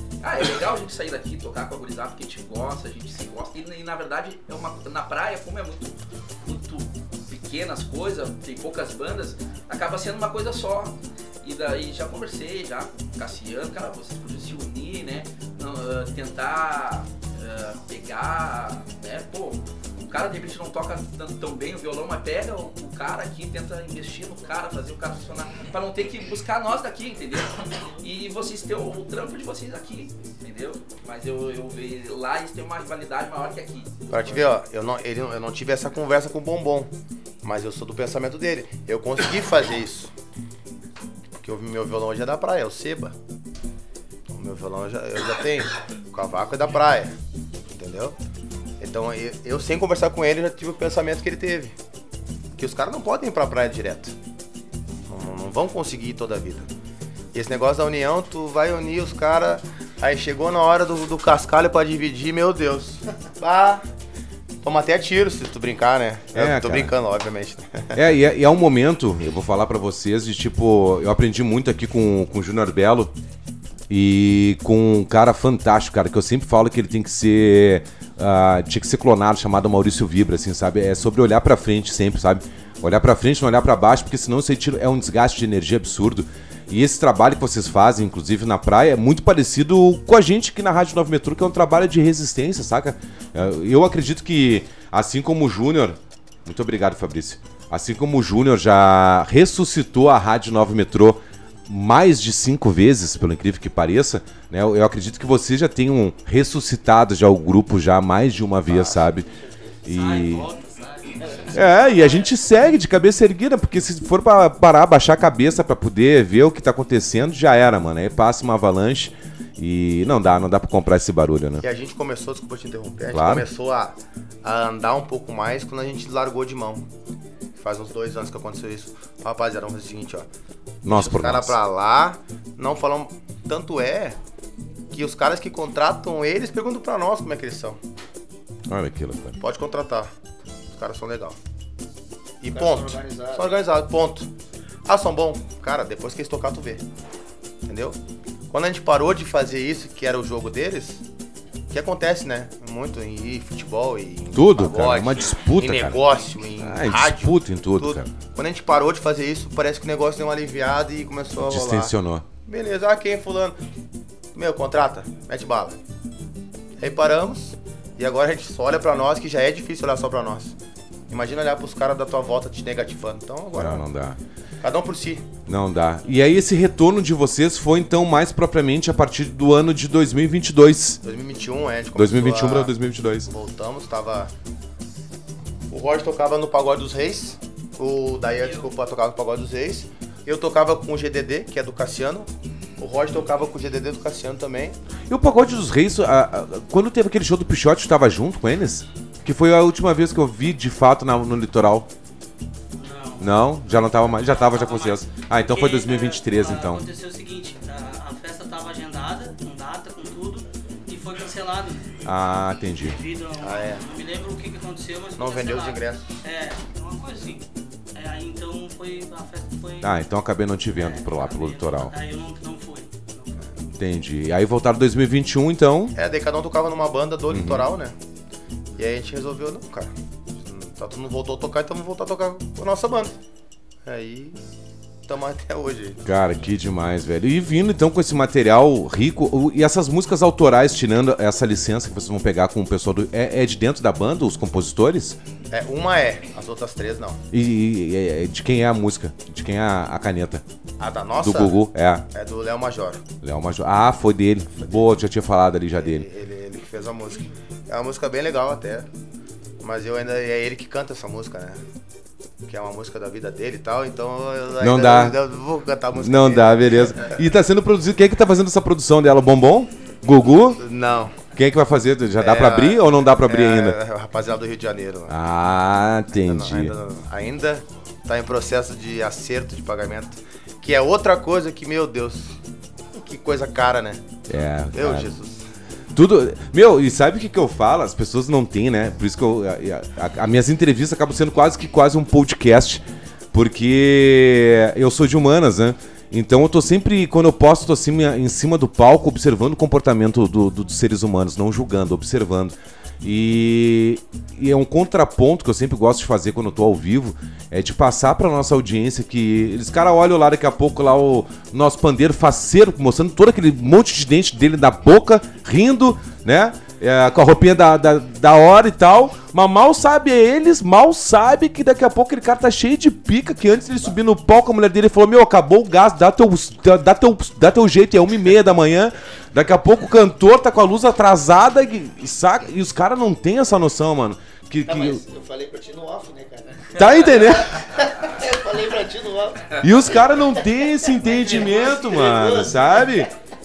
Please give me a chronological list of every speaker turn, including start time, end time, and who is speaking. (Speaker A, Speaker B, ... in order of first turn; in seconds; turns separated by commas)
Speaker A: 0.2-33.9, Speaker B: 34.1-36.9, Speaker B: 37.4-40.1, Speaker B: 41.4-43.1, Speaker B: 44.3-47.1, Speaker B: 47.7-48.1, Speaker B: 48.8-51.7, Speaker B: 52.5-54.1, Speaker B: 55.1-56.7, Speaker B: 57.3-63.8, Speaker B: 64.6-68.0, Speaker C: 66.3-66.9, Speaker C: 67.9-73.1, Speaker C: 73.9-109.3, Speaker D: 108.9-109.9, Speaker C: 109.9-110.5, Speaker E: 109.9-111.8, Speaker D: 111.2-111.5, Speaker C: 111.5-121.6, Speaker B: 121.6-126.8, Speaker C: 123.1-123.5, Speaker B: 127.5-130.3, Speaker C: 130.8-131.5, Speaker B: 130.8-134.2, Speaker B: 134.9-137.8, Speaker C: 138.7-139.4, Speaker B: 139.4-140.1, Speaker B: 140.7-141.4, Speaker B: 142.4-144.3, Speaker D: 142.5-143.7, Speaker B: 144.8-146.8, Speaker B: 147.7-148.0, Speaker B: 148.5-151.0, Speaker B: 151.7-163.6, Speaker C: 154.3-156.0, Speaker C: 156.6-158.1, Speaker C: 161.4-162.2, Speaker B: 164.3-165.8, Speaker B: 166.8-170.5, Speaker B: 171.1-173.8, Speaker C: 173.6-174.2, Speaker B: 174.6-175.2, Speaker C: 175.5-181.0, Speaker B: 181.0-182.7, Speaker C: 181.9-183.3, Speaker B: 183.3-184.3, Speaker B: 185.7-194.8, Speaker C: 195.1-201.9, Speaker E: 202.8-203.3, Speaker C: 203.2-206.8, Speaker E: 204.0-212.0, Speaker C: 212.0-213.0, Speaker E: 212.9-219.9, Speaker B: 213.4-213.8, Speaker B: 215.2-216.0, Speaker C: 219.8-221.9, Speaker E: 220.8-223.7, Speaker C: 223.8-225.9, Speaker B: 225.9-227.9, Speaker C: 227.3-227.7, Speaker B: 228.8-229.9, Speaker B: 230.4-233.2, Speaker B: 233.8-234.4, Speaker B: 235.1-236.0, Speaker C: 236.0-245.2, Speaker B: 245.5-247.2, Speaker C: 247.3-250.4, Speaker B: 250.8-251.6, Speaker C: 251.2-252.0, Speaker B: 252.1-253.0, Speaker C: 253.2-256.1, Speaker B: 255.8-258.9, Speaker B: 259.6-261.6, Speaker B: 262.4-267.2, Speaker C: 264.6-265.2, Speaker C: 266.0-270.6, Speaker B: 270.6-271.1, Speaker C: 271.3-273.8, Speaker B: 272.2-275.1, Speaker C: 275.1-276.7, Speaker B: 276.2-282.3, Speaker B: 282.9-284.0, Speaker C: 284.3-285.1, Speaker B: 284.7-285.4, Speaker C: 285.9-335.0, Speaker D: 334.6-343.1, Speaker C: 336.7-337.6, Speaker C: 339.6-343.1